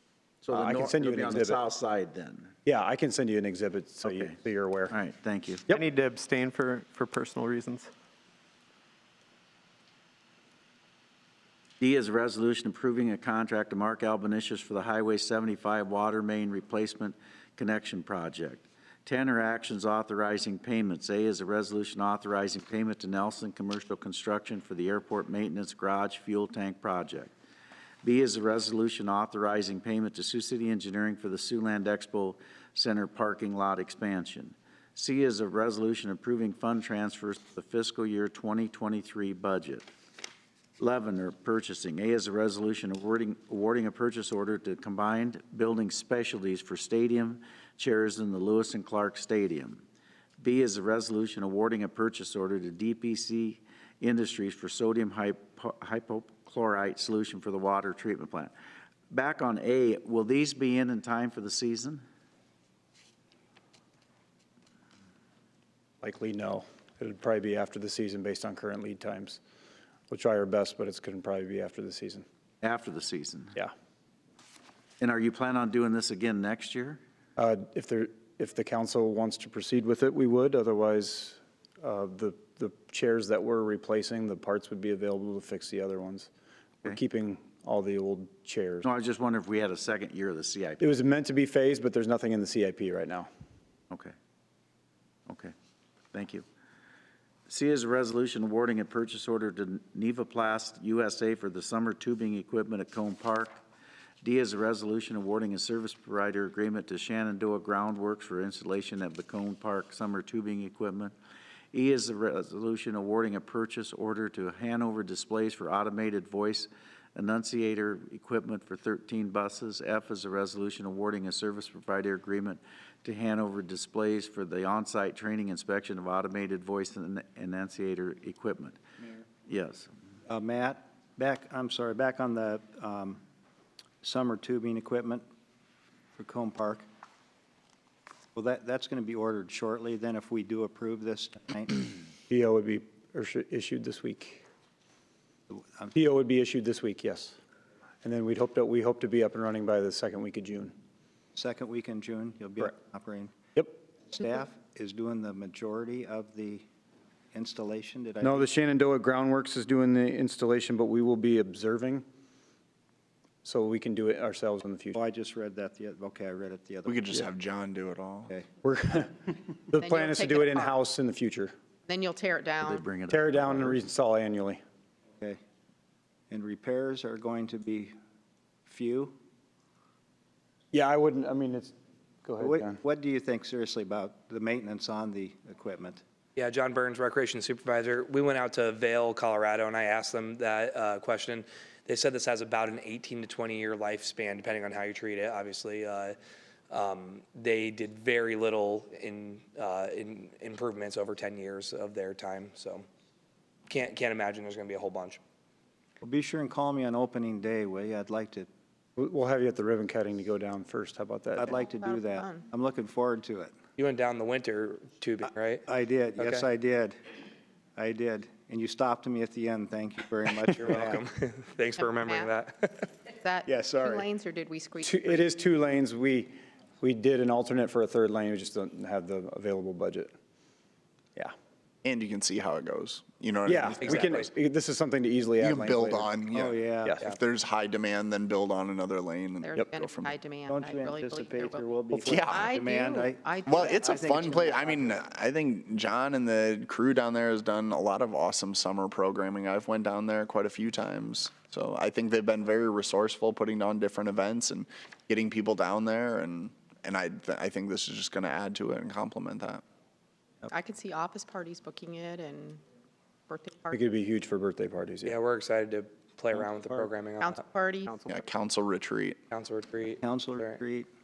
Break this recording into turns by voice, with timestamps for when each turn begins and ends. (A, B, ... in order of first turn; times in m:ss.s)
0:00.4-0:02.5 A
0:00.5-0:01.6 B
0:02.6-0:04.9 B
0:04.0-0:04.3 A
0:04.9-0:05.6 A
0:05.7-0:07.9 C
0:11.8-0:27.3 A
0:28.0-0:39.9 A
0:40.8-0:49.8 A
0:50.4-0:58.5 A
0:59.1-1:02.0 A
1:06.0-1:09.4 B
1:10.1-1:12.2 B
1:12.6-1:13.5 A
1:15.0-1:17.0 A
1:17.4-1:26.3 B
1:26.8-1:28.9 B
1:28.8-1:30.8 A
1:30.8-1:33.3 B
1:35.3-1:35.5 A
1:36.1-1:36.4 A
1:37.5-1:43.6 A
1:44.2-1:51.1 A
1:51.7-2:08.8 A
2:09.4-2:09.9 A
2:10.3-2:13.2 D
2:14.0-2:15.2 D
2:16.2-2:16.8 D
2:18.3-2:21.8 D
2:22.3-2:24.4 B
2:25.5-2:25.9 D
2:25.9-2:27.4 B
2:28.0-2:30.7 B
2:31.3-2:33.3 D
2:34.1-2:36.6 D
2:37.3-2:38.5 D
2:38.2-2:42.0 B
2:43.4-2:45.0 B
2:44.9-2:47.3 D
2:46.9-2:48.3 E
2:48.6-2:51.5 B
2:49.8-2:50.7 F
2:51.9-2:52.8 F
2:52.6-2:53.8 A
2:53.1-2:54.6 B
2:56.3-2:57.9 D
2:58.7-2:59.2 D
3:00.7-3:01.7 B
3:02.2-3:02.8 B
3:02.4-3:06.0 D
3:06.4-3:16.2 G
3:16.7-3:22.8 G
3:23.7-3:25.2 G
3:26.0-3:28.5 D
3:29.0-3:31.6 B
3:31.4-3:33.5 D
3:31.8-3:32.5 F
3:33.8-3:35.6 G
3:35.6-3:37.0 D
3:36.2-3:36.5 G
3:37.8-3:41.0 D
3:40.5-3:43.0 G
3:42.0-3:42.3 F
3:43.1-3:45.1 F
3:43.7-3:44.1 D
3:44.8-3:50.1 B
3:51.8-3:54.1 E
3:53.4-3:56.1 B
3:53.8-3:54.3 G
3:55.4-4:00.2 E
3:56.3-3:57.0 D
3:59.4-4:01.6 F
4:00.5-4:03.4 D
4:01.9-4:02.5 E
4:02.3-4:04.8 F
4:03.4-4:19.6 E
4:04.0-4:04.3 D
4:20.5-4:22.6 F
4:23.3-4:23.8 F
4:23.7-4:25.2 B
4:25.0-4:27.4 G
4:27.2-4:27.9 F
4:27.8-4:28.2 C
4:28.1-4:29.2 E
4:29.3-4:30.6 G
4:30.0-4:30.9 D